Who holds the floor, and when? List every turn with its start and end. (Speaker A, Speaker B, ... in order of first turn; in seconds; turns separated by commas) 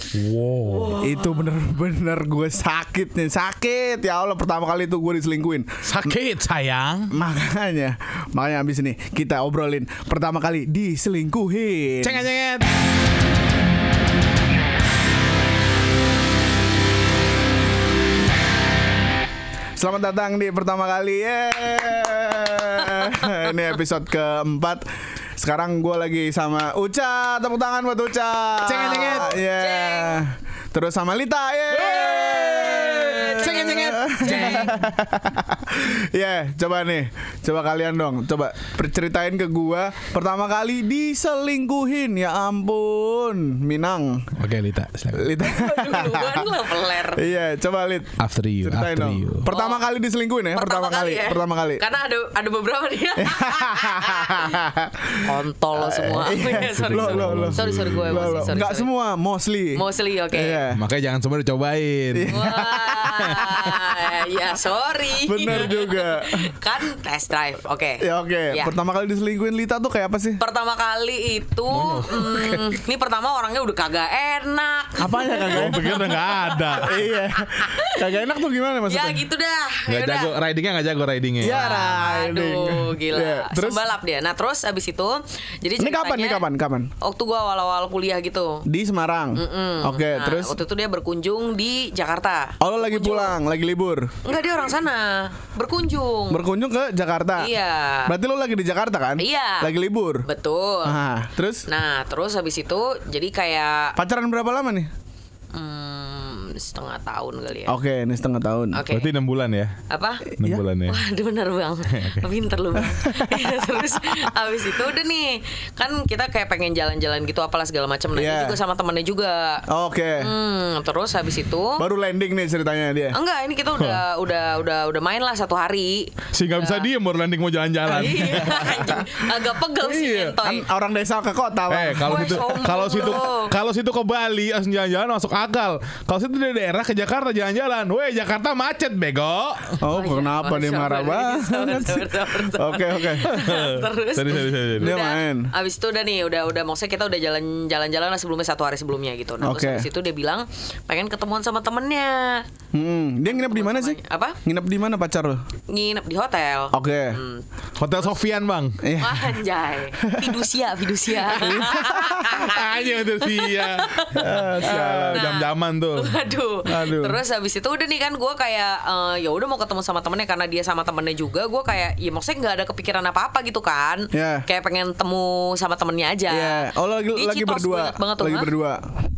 Speaker A: 0.1-1.0, Speaker B: 0.7-1.4, Speaker C: 1.0-6.1, Speaker A: 5.8-7.1, Speaker C: 7.1-12.2, Speaker A: 12.0-12.7, Speaker C: 19.8-24.8, Speaker C: 25.4-44.3, Speaker A: 28.6-29.4, Speaker B: 28.9-30.2, Speaker A: 31.7-34.7, Speaker B: 32.6-34.7, Speaker A: 44.4-45.3, Speaker C: 45.1-51.8, Speaker B: 45.4-47.2, Speaker A: 48.2-49.5, Speaker B: 49.5-49.8, Speaker B: 50.5-54.6, Speaker C: 53.2-60.8, Speaker B: 55.1-58.9, Speaker A: 56.7-58.6, Speaker B: 59.8-60.6, Speaker A: 60.7-62.5, Speaker C: 62.1-64.2, Speaker B: 62.3-68.7, Speaker A: 63.2-63.8, Speaker C: 65.2-66.5, Speaker C: 68.0-70.4, Speaker B: 70.4-78.2, Speaker A: 71.7-72.2, Speaker C: 72.0-72.6, Speaker C: 75.0-75.8, Speaker A: 75.5-77.0, Speaker C: 76.8-79.2, Speaker B: 78.9-80.3, Speaker A: 79.9-81.6, Speaker C: 81.4-83.8, Speaker B: 81.4-86.4, Speaker C: 85.8-86.9, Speaker B: 87.0-88.6, Speaker C: 88.6-90.6, Speaker B: 89.4-93.4, Speaker C: 92.6-94.1, Speaker B: 94.2-96.4, Speaker C: 96.3-97.5, Speaker B: 97.4-98.1, Speaker C: 98.0-100.2, Speaker B: 99.2-99.7, Speaker B: 100.2-101.0, Speaker C: 100.8-101.7, Speaker B: 101.7-103.9, Speaker C: 104.0-104.9, Speaker B: 105.5-107.8, Speaker C: 107.7-108.8, Speaker B: 108.7-109.1, Speaker A: 108.9-109.8, Speaker B: 109.9-110.3, Speaker C: 110.3-110.6, Speaker A: 110.4-111.0, Speaker B: 110.9-119.6, Speaker A: 111.9-112.3, Speaker C: 112.7-114.2, Speaker C: 118.1-118.6, Speaker C: 119.7-120.3, Speaker B: 120.2-121.8, Speaker C: 121.8-123.1, Speaker B: 123.1-126.9, Speaker A: 123.8-124.0, Speaker A: 126.3-129.0, Speaker B: 127.9-130.7, Speaker C: 128.4-129.0, Speaker C: 129.8-133.2, Speaker A: 131.7-139.8, Speaker B: 132.0-133.5, Speaker C: 139.8-143.3, Speaker B: 139.9-152.4, Speaker A: 143.2-144.9, Speaker C: 144.8-145.5, Speaker C: 149.4-149.8, Speaker C: 152.7-155.4, Speaker B: 153.2-154.4, Speaker B: 155.7-157.4, Speaker C: 156.7-157.2, Speaker A: 157.8-158.8, Speaker C: 158.8-159.4, Speaker B: 159.0-178.5, Speaker C: 160.0-160.4, Speaker C: 161.2-162.4, Speaker A: 162.2-166.2, Speaker C: 164.1-165.2, Speaker C: 166.7-167.2, Speaker C: 174.1-174.4, Speaker C: 176.3-178.8